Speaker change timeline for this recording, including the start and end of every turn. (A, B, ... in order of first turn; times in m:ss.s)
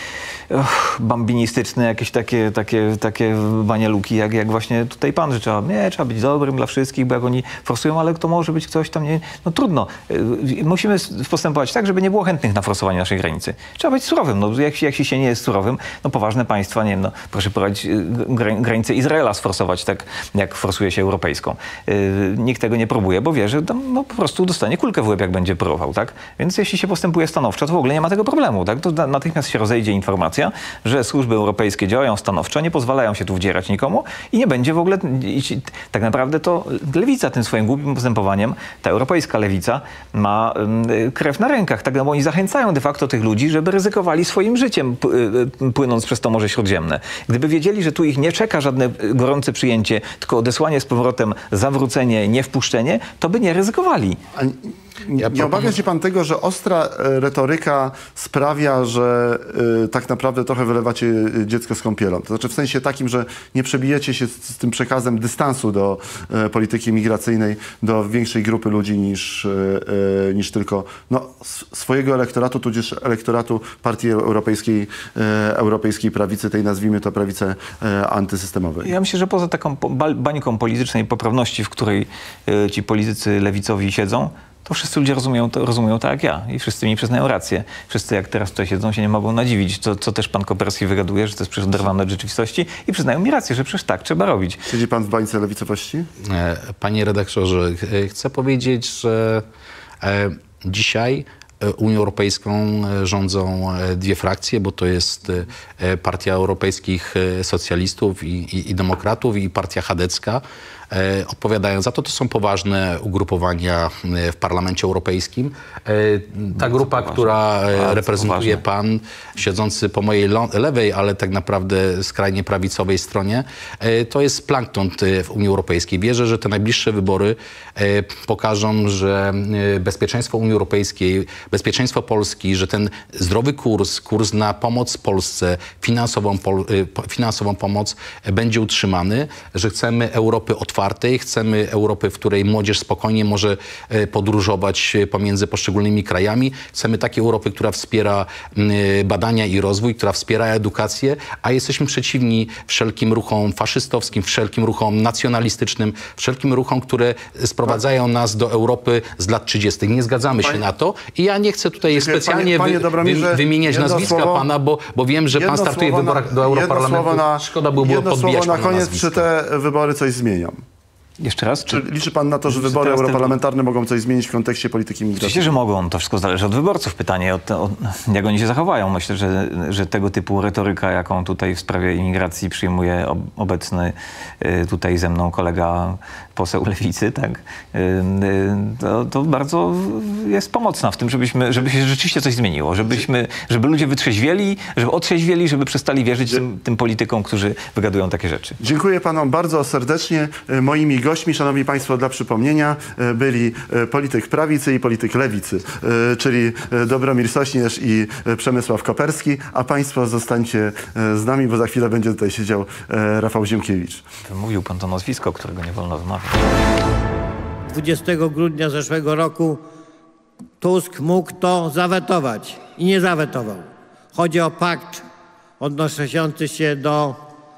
0:00.5-0:54.2 A
0:54.4-1:18.9 B
0:55.2-0:55.7 C
1:18.8-1:34.6 A
1:34.7-1:36.1 B
1:36.2-1:39.5 C
1:40.0-2:49.2 C
1:56.6-1:58.6 A
2:41.9-2:44.5 B
2:45.4-2:50.6 B
2:51.2-2:51.8 A
2:51.7-2:55.5 B
2:52.5-2:53.4 A
2:55.2-3:18.6 A
3:18.6-3:34.0 B
3:34.3-3:36.5 A
3:37.7-3:39.6 D
3:40.6-3:45.0 D
3:45.6-3:47.2 D